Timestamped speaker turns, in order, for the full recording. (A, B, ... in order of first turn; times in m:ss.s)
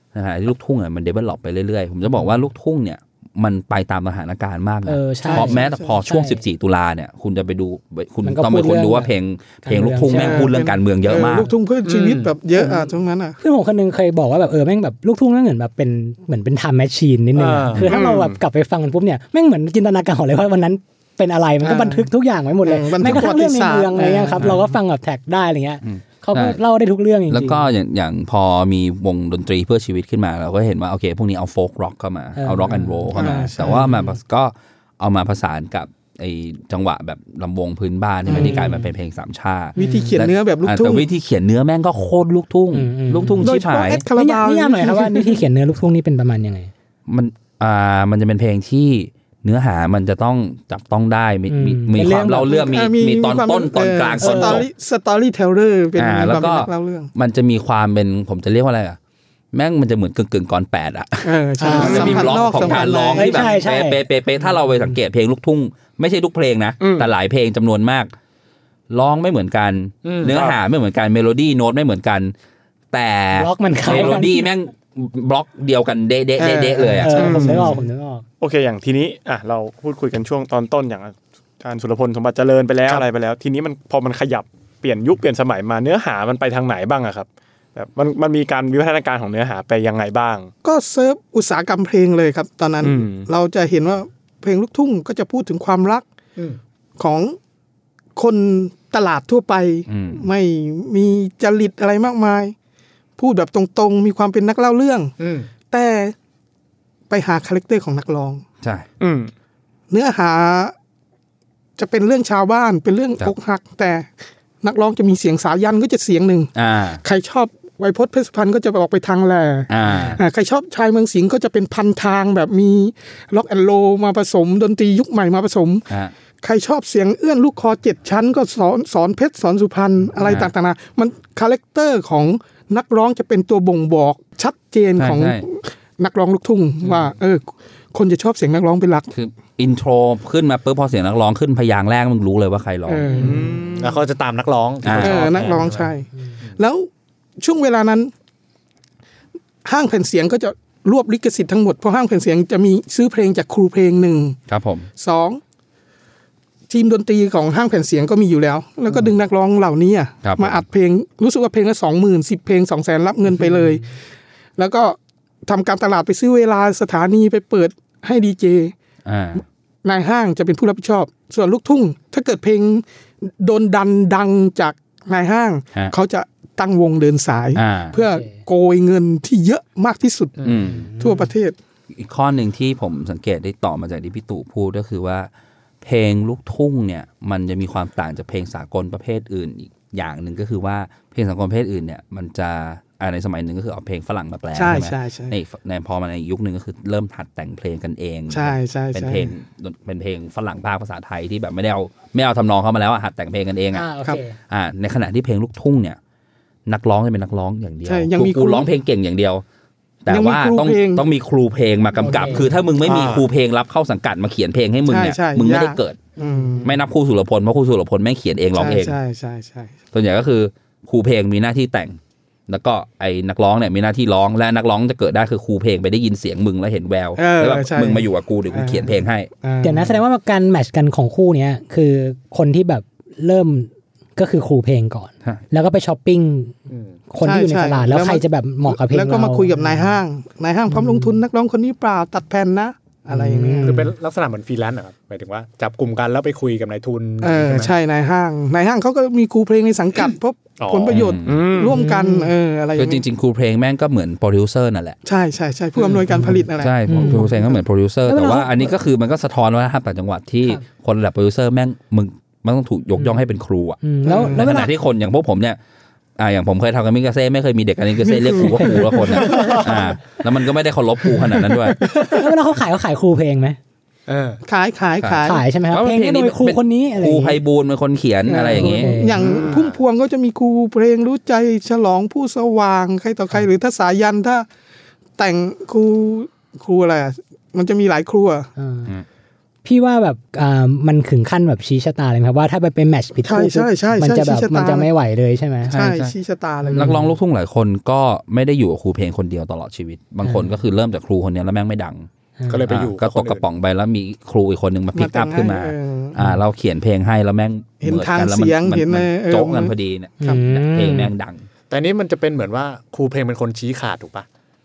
0:00.1-0:11.5 A
0:04.8-0:06.4 B
0:05.2-0:05.9 C
0:08.2-0:09.1 B
0:09.6-0:10.5 B
0:10.1-0:13.4 C
0:11.8-0:12.3 D
0:12.6-0:12.9 B
0:13.4-0:27.7 B
0:17.4-0:18.0 D
0:17.8-0:18.4 E
0:21.6-0:22.1 C
0:22.6-0:24.6 C
0:25.8-0:26.6 A
0:27.3-0:44.0 A
0:32.4-0:34.1 B
0:33.1-0:34.0 C
0:38.3-0:38.7 C
0:38.3-0:38.9 B
0:39.8-0:40.2 B
0:39.8-0:41.0 C
0:42.7-0:43.5 B
0:43.4-0:45.4 C
0:44.1-0:46.7 B
0:47.1-0:54.7 A
0:51.5-0:52.6 B
0:52.5-0:57.1 C
0:54.2-0:54.6 B
0:56.0-0:59.0 A
0:59.5-1:08.1 A
1:01.2-1:03.5 C
1:01.6-1:05.0 B
1:01.8-1:02.2 E
1:06.8-1:07.1 E
1:08.9-1:12.3 A
1:10.0-1:10.4 D
1:10.2-1:10.6 E
1:12.9-1:17.4 A
1:13.3-1:14.5 B
1:16.4-1:17.6 C
1:17.0-1:18.2 B
1:17.1-1:17.8 E
1:18.4-1:30.5 E
1:30.6-1:36.0 C
1:32.8-1:33.3 E
1:37.0-1:37.4 C
1:38.2-1:42.5 C
1:39.9-1:40.3 A
1:43.2-1:45.1 C
1:45.2-1:45.5 D
1:45.7-1:46.1 C
1:47.1-1:48.4 C
1:49.0-1:49.3 E
1:49.9-1:50.7 C
1:51.8-1:54.1 C
1:54.6-1:56.5 C
1:56.6-1:57.0 A
1:57.0-2:05.8 C
1:59.7-2:00.2 A
2:05.9-2:06.1 A
2:06.4-2:19.1 C
2:10.2-2:10.5 A
2:15.0-2:15.4 A
2:19.1-2:23.3 A
2:22.9-2:23.7 C
2:23.2-2:23.9 E
2:23.2-2:26.5 D
2:24.8-2:25.4 A
2:25.0-2:26.9 C
2:27.4-2:28.1 C
2:29.6-2:34.4 C
2:34.5-2:34.9 A
2:35.0-2:35.4 C
2:36.7-2:43.8 C
2:40.2-2:40.6 A
2:43.3-2:43.8 B
2:44.6-2:48.7 C
2:49.0-2:49.4 A
2:49.8-3:00.5 C
2:57.5-2:58.0 A
3:00.4-3:00.6 D
3:00.4-3:00.9 A
3:00.7-3:01.3 B
3:01.0-3:01.6 C
3:02.0-3:05.3 A
3:05.8-3:23.9 A
3:14.6-3:15.3 C
3:18.3-3:19.3 C
3:23.7-3:24.4 B
3:24.5-3:26.0 A
3:26.7-3:29.4 A
3:27.8-3:28.7 C
3:30.0-3:36.0 A
3:30.1-3:31.0 C
3:32.0-3:32.5 B
3:32.0-3:32.5 C
3:32.8-3:33.3 D
3:34.9-3:36.7 C
3:36.3-3:36.6 B
3:36.6-3:39.0 A
3:38.5-3:39.7 C
3:39.9-3:49.3 A
3:47.2-3:50.0 C
3:49.6-3:56.5 B
3:56.7-3:57.0 D
3:57.1-4:00.0 B
3:57.2-4:03.8 C
4:00.7-4:01.2 B
4:03.1-4:03.9 B
4:03.6-4:07.7 D
4:07.2-4:13.0 C
4:10.6-4:11.1 D
4:10.9-4:11.4 A
4:11.3-4:11.8 E
4:11.6-4:12.3 B
4:12.8-4:15.0 A
4:15.0-4:17.6 C
4:16.1-4:17.4 B
4:16.6-4:25.6 A
4:18.0-4:18.7 B
4:23.8-4:24.7 B
4:24.0-4:24.5 C
4:26.2-4:31.8 A
4:28.1-4:29.9 C
4:28.4-4:29.8 B
4:31.2-4:32.2 C
4:32.0-4:33.6 B
4:34.1-4:34.4 D
4:34.4-4:35.4 C
4:35.0-4:38.9 A
4:35.2-4:37.4 B
4:38.3-4:44.5 C
4:38.5-4:39.2 B
4:39.2-4:39.8 D
4:45.2-4:48.5 C
4:48.6-4:48.9 B
4:49.6-4:55.8 B
4:53.2-4:54.9 C
4:55.7-4:56.1 A
4:55.7-4:57.0 C
4:56.6-4:57.1 B
4:56.7-5:02.1 A
5:00.2-5:00.5 B
5:02.4-5:02.7 B
5:02.5-5:03.4 D
5:02.7-5:11.5 A
5:04.9-5:06.2 C
5:07.8-5:10.4 C
5:10.2-5:11.1 B
5:11.7-5:14.3 D